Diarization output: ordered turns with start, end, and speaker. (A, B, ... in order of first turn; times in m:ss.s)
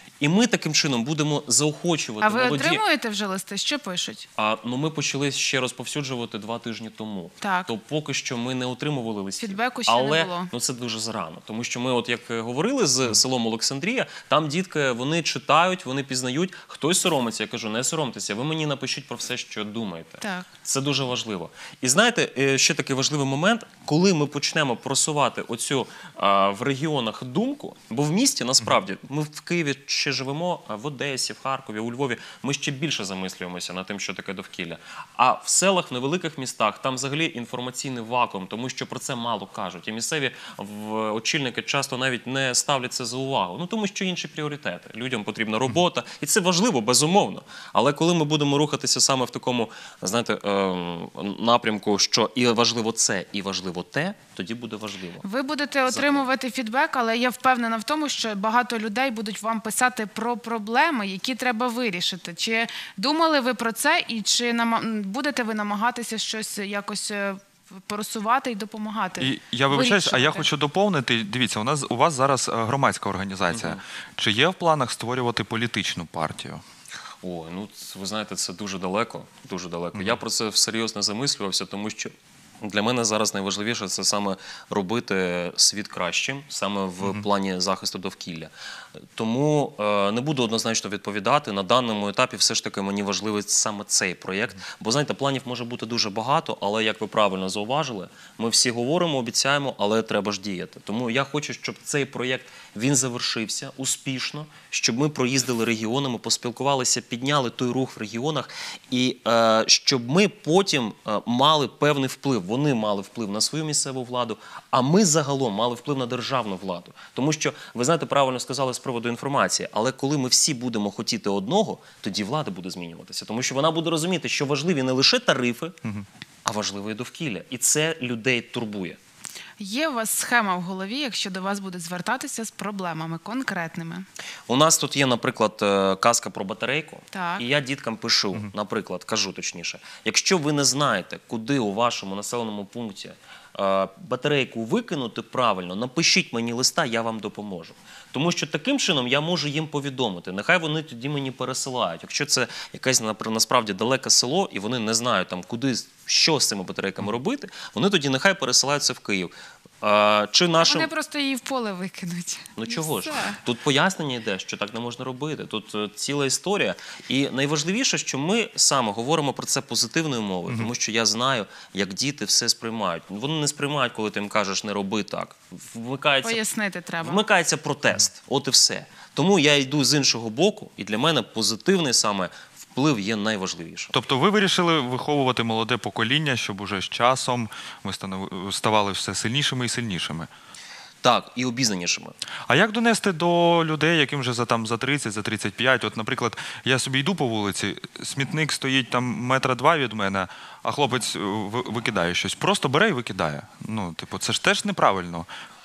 0:00.2-0:02.8 A
0:02.2-0:04.3 B
0:04.4-0:55.2 A
0:07.4-0:07.7 B
0:09.4-0:10.5 B
0:20.2-0:20.5 B
0:55.2-1:10.5 B
0:55.9-0:56.3 A
1:09.2-1:16.6 C
1:13.5-1:13.8 A
1:17.2-1:28.5 A
1:19.9-1:20.2 C
1:29.2-2:05.7 A
2:06.4-2:09.0 A
2:09.6-2:14.1 B
2:14.5-2:40.9 A
2:17.1-2:17.4 B
2:40.6-2:43.4 B
2:42.6-2:56.4 A
2:56.2-2:57.2 B
2:57.0-3:04.0 A
3:03.9-3:10.3 C
3:11.0-3:12.2 A
3:12.5-3:25.3 C